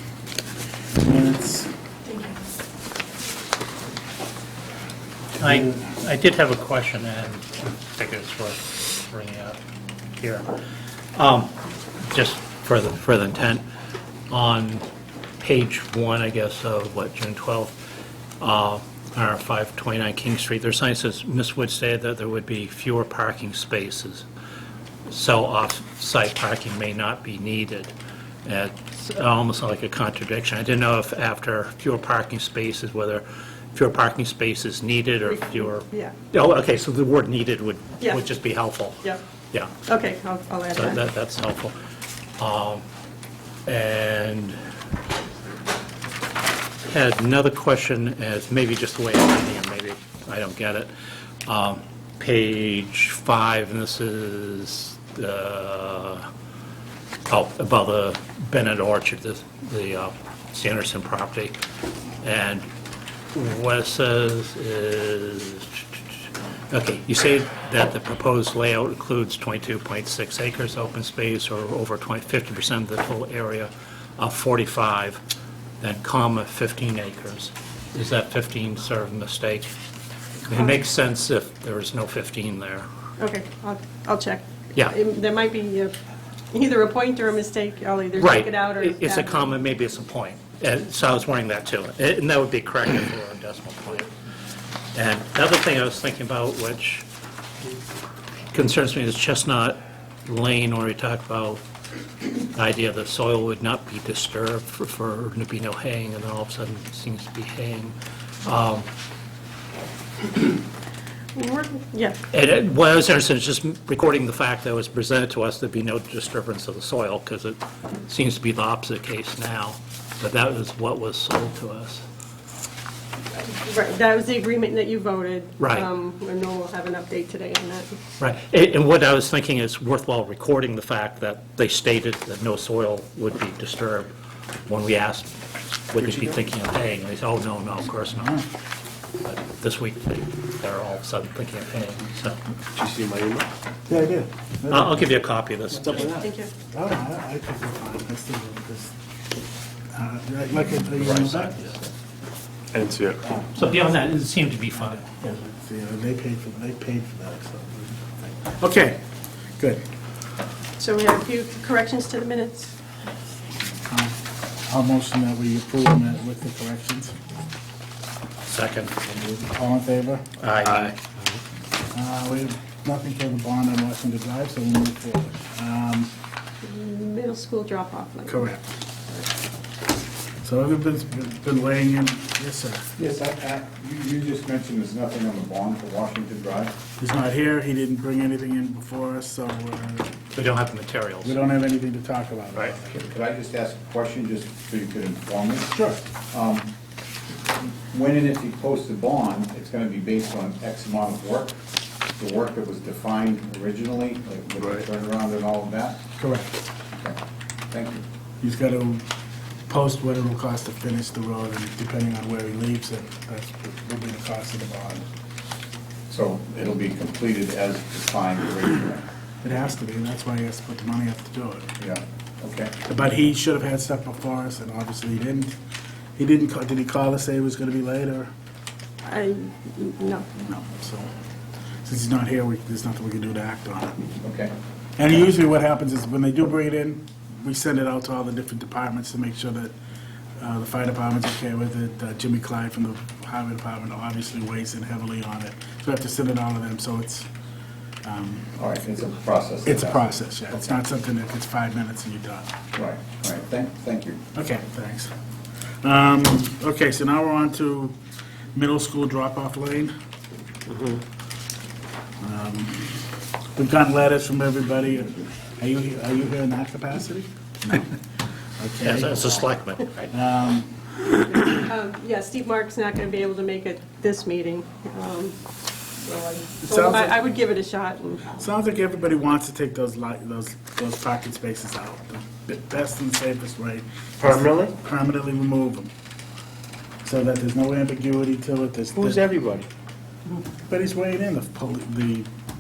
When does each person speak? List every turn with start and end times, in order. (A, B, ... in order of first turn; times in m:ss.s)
0:01.0-0:01.7 A
0:02.1-0:02.4 B
0:05.4-0:09.6 C
0:05.5-0:05.8 A
0:10.2-0:10.5 C
0:11.1-0:13.6 C
0:14.3-0:14.9 C
0:15.4-0:17.8 C
0:18.4-0:24.3 C
0:25.1-0:27.9 C
0:28.4-0:39.7 C
0:35.5-0:36.1 B
0:39.9-0:41.0 B
0:40.7-0:41.8 C
0:42.4-0:42.8 C
0:43.7-0:44.6 C
0:46.9-0:50.9 C
0:51.5-0:56.3 C
0:57.3-1:01.6 C
1:02.2-1:02.7 C
1:03.3-1:15.2 C
1:15.8-1:19.7 C
1:20.4-1:22.9 C
1:23.2-1:25.9 B
1:26.5-1:29.3 B
1:28.2-1:34.1 C
1:34.9-1:37.1 C
1:38.5-1:41.6 C
1:42.5-1:48.9 C
1:51.4-1:52.2 B
1:52.3-2:02.0 C
2:03.3-2:07.9 B
2:05.6-2:05.9 C
2:08.2-2:14.1 C
2:14.7-2:15.3 C
2:15.9-2:18.4 C
2:16.0-2:16.4 D
2:18.1-2:18.4 A
2:19.2-2:22.4 C
2:22.8-2:23.5 D
2:23.9-2:25.1 A
2:24.7-2:26.3 C
2:25.7-2:26.3 D
2:26.6-2:29.0 A
2:29.9-2:31.6 A
2:31.0-2:31.8 C
2:32.7-2:33.2 D
2:33.5-2:35.4 C
2:34.9-2:39.0 A
2:39.6-2:39.8 A
2:40.8-2:42.7 B
2:43.9-2:47.2 A
2:48.5-2:49.0 C
2:49.3-2:50.2 A
2:50.4-2:51.0 C
2:50.6-2:51.4 D
2:51.9-2:56.1 A
2:56.6-2:58.4 B
2:58.3-2:58.6 A
3:00.4-3:02.9 A
3:03.0-3:06.7 E
3:07.0-3:10.1 A
3:10.3-3:11.4 C
3:11.2-3:13.0 A
3:12.9-3:15.8 E
3:15.7-3:16.0 A
3:16.3-3:16.7 E
3:17.7-3:21.6 E
3:22.2-3:26.0 E
3:26.2-3:26.6 A
3:27.7-3:28.0 E
3:28.4-3:29.0 A
3:29.7-3:35.1 A
3:36.1-3:39.1 E
3:39.4-3:41.7 A
3:41.8-3:42.8 E
3:42.9-3:45.6 A
3:46.2-3:48.3 A
3:49.1-3:50.2 B
3:50.4-3:51.1 A
3:51.8-3:54.1 A
3:54.2-3:54.5 E
3:55.0-3:59.8 A
4:00.4-4:07.3 A
4:08.0-4:08.6 A
4:08.6-4:10.7 E
4:09.7-4:12.6 A
4:12.7-4:14.2 E
4:14.4-4:15.1 A
4:15.8-4:18.0 A
4:18.6-4:19.9 A
4:20.7-4:21.0 D
4:22.2-4:23.0 A
4:23.6-4:28.0 A
4:28.6-4:29.4 A
4:28.8-4:30.2 C
4:30.1-4:31.5 A
4:31.7-4:35.4 B
4:36.0-4:38.3 B
4:36.6-4:37.4 A
4:38.3-4:45.9 A
4:44.2-4:44.8 D
4:47.0-4:49.2 A
4:49.0-4:49.7 D
4:50.6-4:52.3 A